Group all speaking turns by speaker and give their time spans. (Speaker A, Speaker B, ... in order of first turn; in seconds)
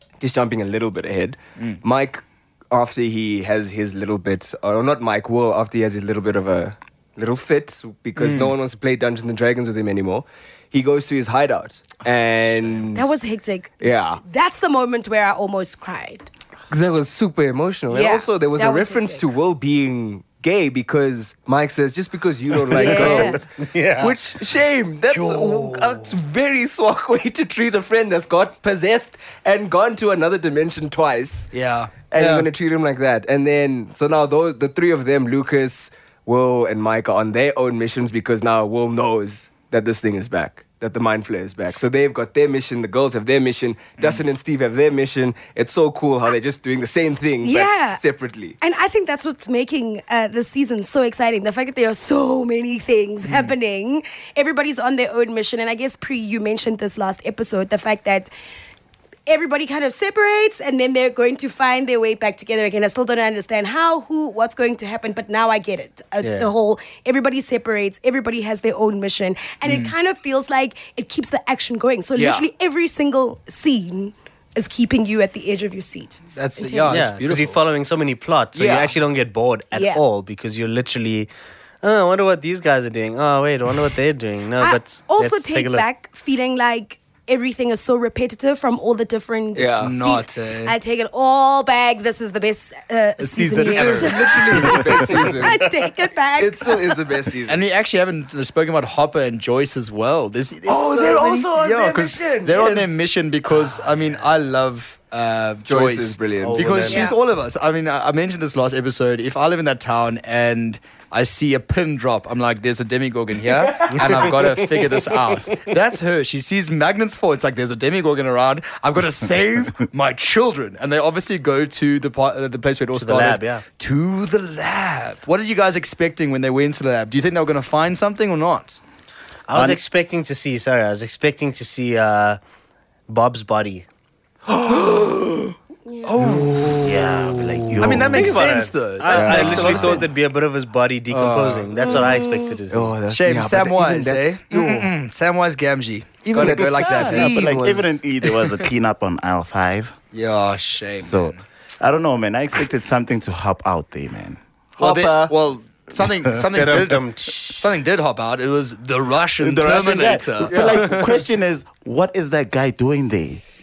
Speaker A: 0.2-13.1, 13.8-14.2, 16.7-31.5, 32.1-48.6, 72.2-72.4, 78.5-78.9, 89.6-89.9, 93.6-95.7, 96.4-97.6, 100.7-103.0, 105.7-106.9, 113.9-114.2, 134.6-135.4, 136.1-136.8, 138.1-138.5, 139.1-140.1, 142.7-144.9, 146.3-148.0, 154.8-155.3, 160.4-161.2
Speaker B: 8.2-8.6, 25.1-26.1, 31.5-32.5, 53.2-53.5, 69.7-69.9, 76.3-77.6, 89.8-90.8, 93.2-95.0, 97.5-128.8, 136.2-136.6, 137.8-140.1, 141.1-142.2, 143.1-147.7, 150.1-151.4, 154.8-161.0
Speaker C: 12.9-16.3, 17.9-19.2, 22.7-23.4, 47.4-48.0, 48.6-58.3, 59.3-77.1, 79.7-80.0, 84.6-97.0, 106.9-107.2, 135.9-136.1, 141.8-142.2
Speaker D: 22.7-24.4, 66.2-66.5, 76.9-81.3, 81.8-85.8, 106.4-107.0, 122.9-123.6, 129.5-132.4, 133.1-133.8, 136.2-143.0, 156.5-157.6
Speaker E: 129.5-129.8, 136.7-138.6, 146.8-149.9, 151.0-154.4, 159.4-163.4